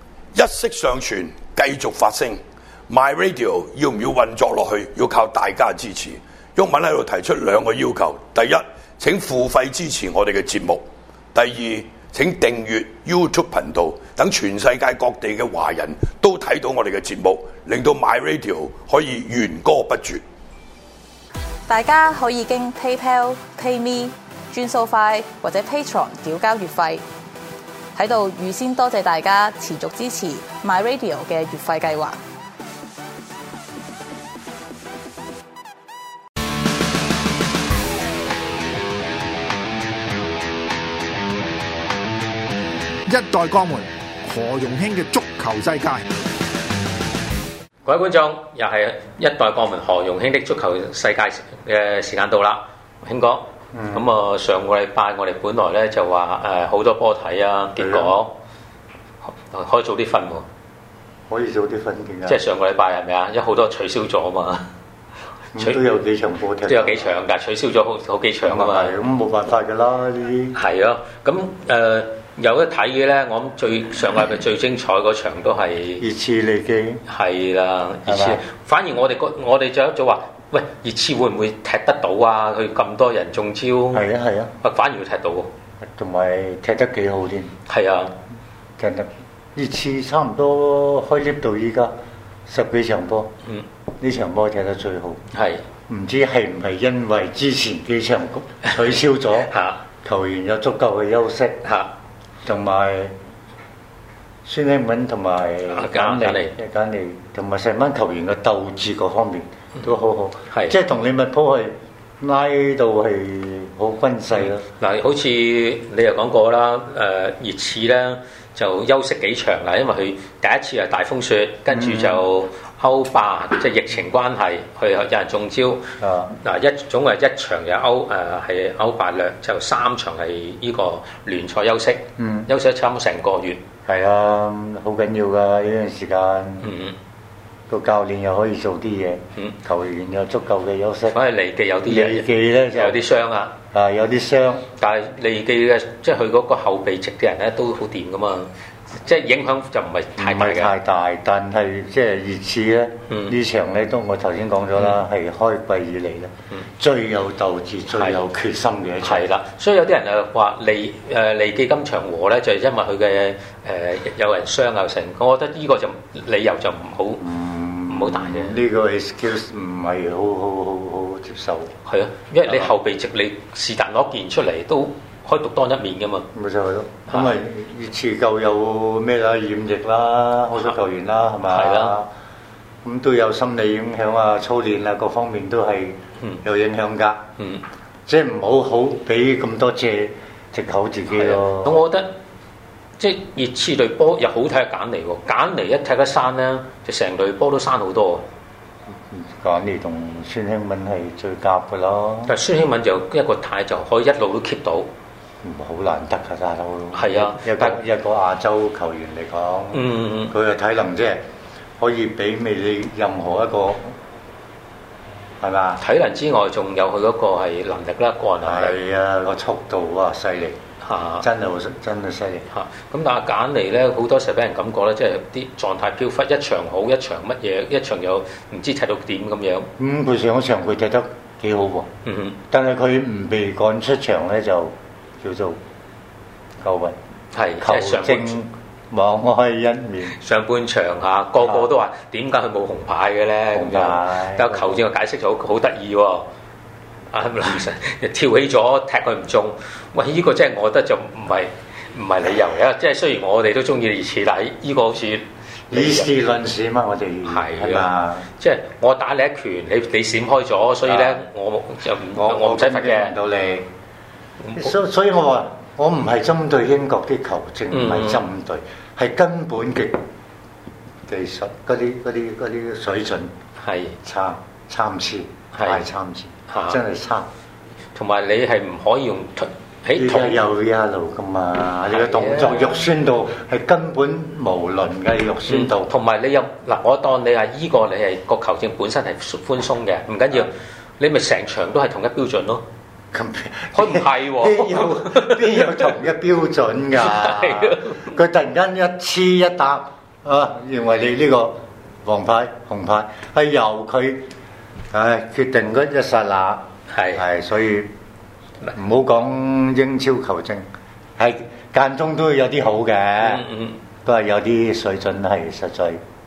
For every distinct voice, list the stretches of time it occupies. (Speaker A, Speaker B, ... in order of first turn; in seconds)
Speaker A: 0.3-10.8, 11.3-20.2
Speaker B: 21.7-27.0, 27.9-32.2
Speaker C: 43.1-43.8, 44.3-46.0
Speaker D: 47.8-58.3, 59.2-60.5, 62.2-64.7, 65.6-65.8, 66.6-68.9, 70.5-76.0, 77.1-84.0, 84.6-85.5, 87.7-88.1, 95.3-95.6, 99.5-99.8, 101.6-101.9, 105.7-106.5, 110.5-110.8, 114.3-125.9, 126.4-133.6, 136.6-136.9, 141.1-143.5, 144.8-150.7, 153.1-153.3, 157.9-158.2, 159.0-167.2, 167.9-168.6, 171.8-176.3, 181.5-182.0, 187.4-187.6, 191.1-192.1, 193.0-198.2, 202.2-204.9, 206.9-207.8, 209.7-210.3, 215.8-218.8, 220.8-221.2, 222.5-229.7, 232.0-232.4, 237.3-238.3, 240.0-246.3, 247.1-256.1, 257.2-263.1, 264.4-264.7, 267.7-268.2, 273.6-274.0, 275.5-275.8, 276.5-276.8, 277.9-280.4, 281.9-282.9, 285.5-292.6, 293.7-295.9, 297.0-298.1, 306.9-307.2, 313.2-313.8
Speaker E: 53.7-54.1, 57.8-58.1, 61.3-62.4, 65.5-67.1, 68.4-70.6, 76.0-77.0, 78.0-78.4, 83.9-84.5, 85.8-87.5, 88.8-91.9, 92.5-93.3, 94.0-95.2, 95.9-101.6, 102.4-103.1, 104.4-114.6, 121.7-122.2, 126.0-126.4, 132.2-132.5, 133.8-136.7, 137.7-141.2, 141.8-143.0, 143.7-144.7, 150.2-159.2, 167.2-171.7, 176.3-182.1, 182.8-187.2, 188.1-191.8, 199.1-202.3, 205.4-211.2, 211.8-213.9, 215.4-215.8, 218.4-220.6, 221.2-222.5, 229.8-231.9, 232.5-235.6, 236.6-237.0, 237.6-240.1, 241.4-241.7, 243.5-244.8, 255.7-258.3, 260.8-261.2, 262.1-263.7, 264.5-270.0, 271.1-273.3, 274.0-277.3, 279.9-285.9, 293.1-304.2, 304.9-307.9, 308.7-310.7, 311.2-313.5, 314.0-316.0